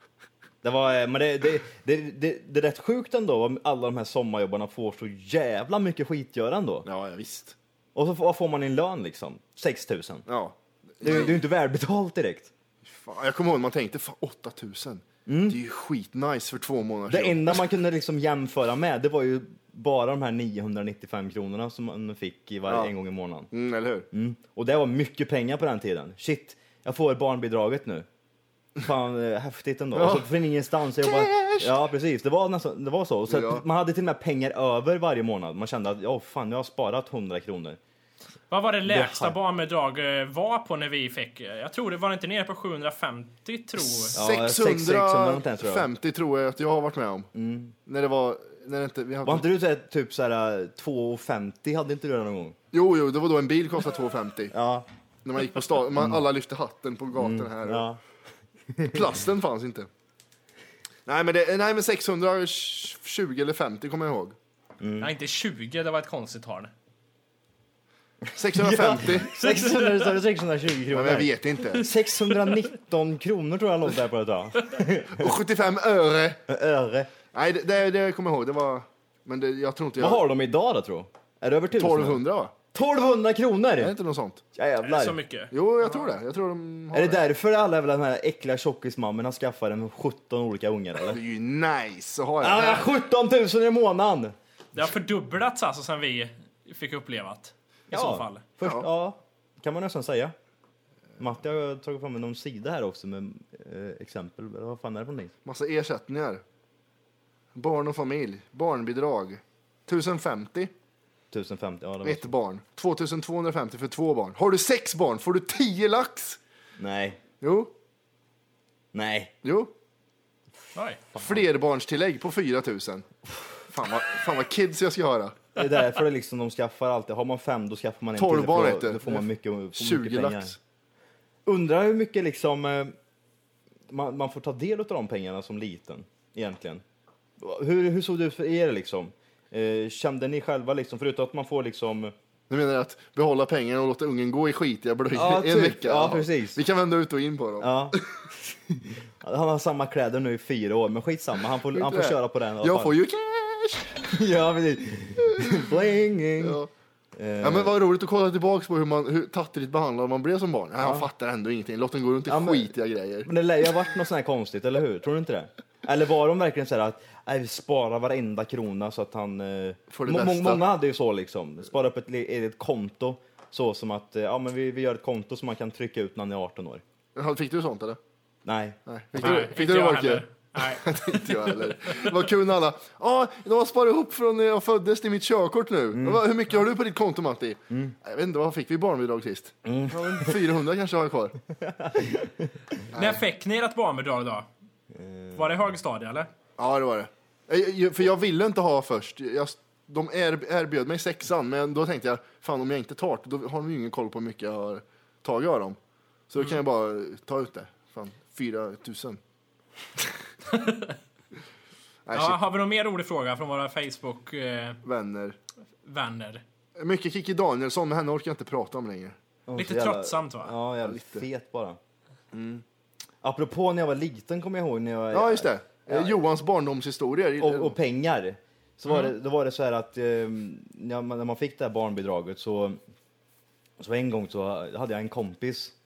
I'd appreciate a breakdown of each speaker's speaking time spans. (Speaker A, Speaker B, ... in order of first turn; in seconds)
Speaker A: 0.6-6.9, 8.0-10.2, 11.0-12.5, 15.3-15.6, 17.1-23.5, 24.1-28.1, 28.8-37.8, 38.9-39.4, 44.1-45.9, 47.3-47.8, 49.2-52.6, 54.5-54.9, 57.2-58.0, 58.7-59.0, 64.8-65.1, 68.3-75.3, 76.5-77.1, 80.0-82.2, 82.7-84.0, 84.6-85.2, 86.9-91.2, 92.4-94.3, 97.9-100.3, 101.2-105.3, 111.3-112.3, 116.8-117.2, 118.9-119.3, 121.2-121.4, 125.6-130.6, 131.4-132.9, 133.9-136.8, 137.4-142.1, 145.1-146.6, 147.6-152.9, 154.1-156.6, 157.2-157.7, 160.8-161.1, 162.3-162.7, 163.2-176.8, 178.4-179.5, 185.9-186.2, 189.7-190.5, 191.6-192.8, 194.9-195.5, 219.5-221.8, 223.2-226.2, 227.4-232.8, 233.8-235.7
Speaker B: 6.9-7.6, 10.3-11.4, 12.8-17.7, 22.7-22.9, 23.5-24.1, 29.9-30.3, 31.0-31.7, 33.3-33.6, 44.0-47.3, 47.9-49.5, 52.7-54.5, 55.2-57.9, 58.9-59.9, 61.1-64.4, 68.3-69.3, 70.9-71.9, 75.2-76.4, 77.3-80.2, 81.8-82.5, 83.8-84.4, 85.5-87.2, 91.1-92.9, 105.5-106.4, 107.5-110.7, 112.0-116.4, 117.4-117.7, 119.4-119.7, 121.2-123.1, 123.7-125.5, 128.2-130.6, 142.5-148.1, 151.7-154.1, 155.3-155.7, 156.4-156.7, 157.4-163.3, 169.9-170.6, 177.2-178.0, 178.9-191.4, 192.9-193.2, 196.6-205.8, 206.3-209.2, 212.1-212.4, 214.8-215.4, 216.8-219.2, 220.8-221.2, 222.3-222.6, 225.1-227.8
Speaker C: 38.5-44.2, 65.0-66.7, 69.4-70.2, 72.3-72.6, 84.8-86.0, 94.8-98.4, 120.8-121.0, 179.2-180.9, 192.9-194.5, 195.3-196.3, 210.5-211.0, 212.1-214.8, 215.8-216.4, 219.6-220.5